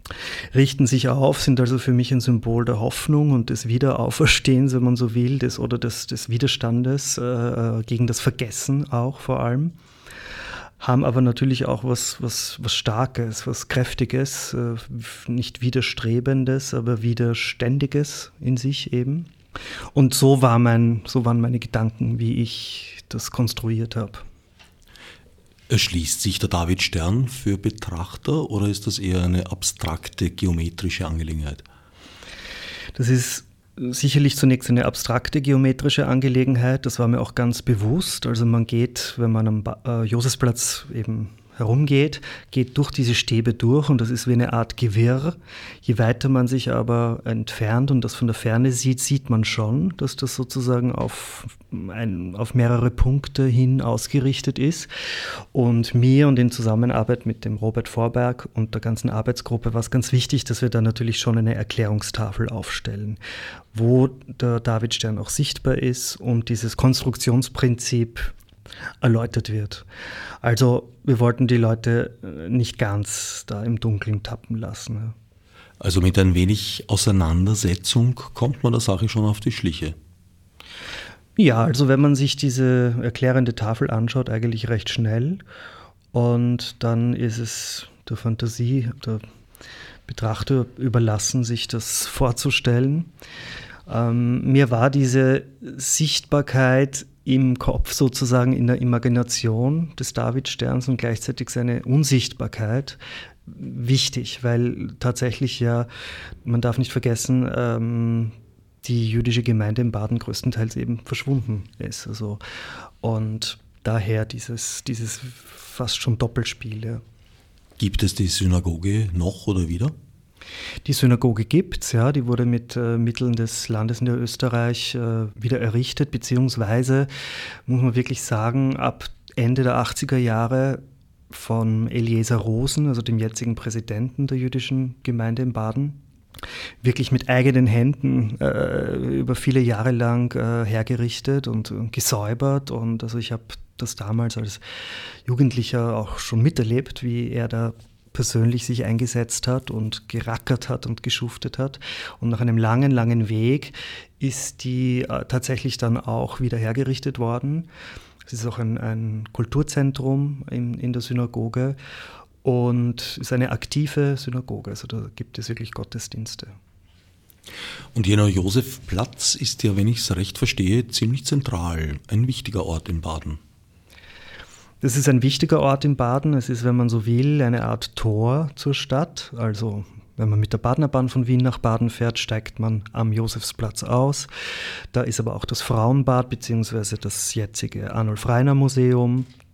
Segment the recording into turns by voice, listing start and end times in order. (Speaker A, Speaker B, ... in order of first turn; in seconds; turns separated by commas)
Speaker A: 0.5-9.8, Speaker A: 10.8-19.3, Speaker A: 19.9-24.2, Speaker B: 25.7-31.6, Speaker A: 33.0-54.9, Speaker A: 55.5-63.2, Speaker A: 63.7-68.3, Speaker A: 69.0-69.9, Speaker A: 70.4-75.2, Speaker B: 75.8-80.0, Speaker A: 81.4-85.4, Speaker A: 86.1-89.2, Speaker A: 90.1-93.1, Speaker A: 93.9-105.9, Speaker A: 106.4-112.4, Speaker A: 113.0-117.0, Speaker B: 117.8-119.9, Speaker A: 120.8-127.1, Speaker A: 127.7-136.0, Speaker A: 136.8-144.6, Speaker A: 145.3-157.7, Speaker A: 158.3-161.8, Speaker A: 162.4-166.6, Speaker B: 167.9-173.4, Speaker A: 174.8-184.3, Speaker A: 184.9-189.3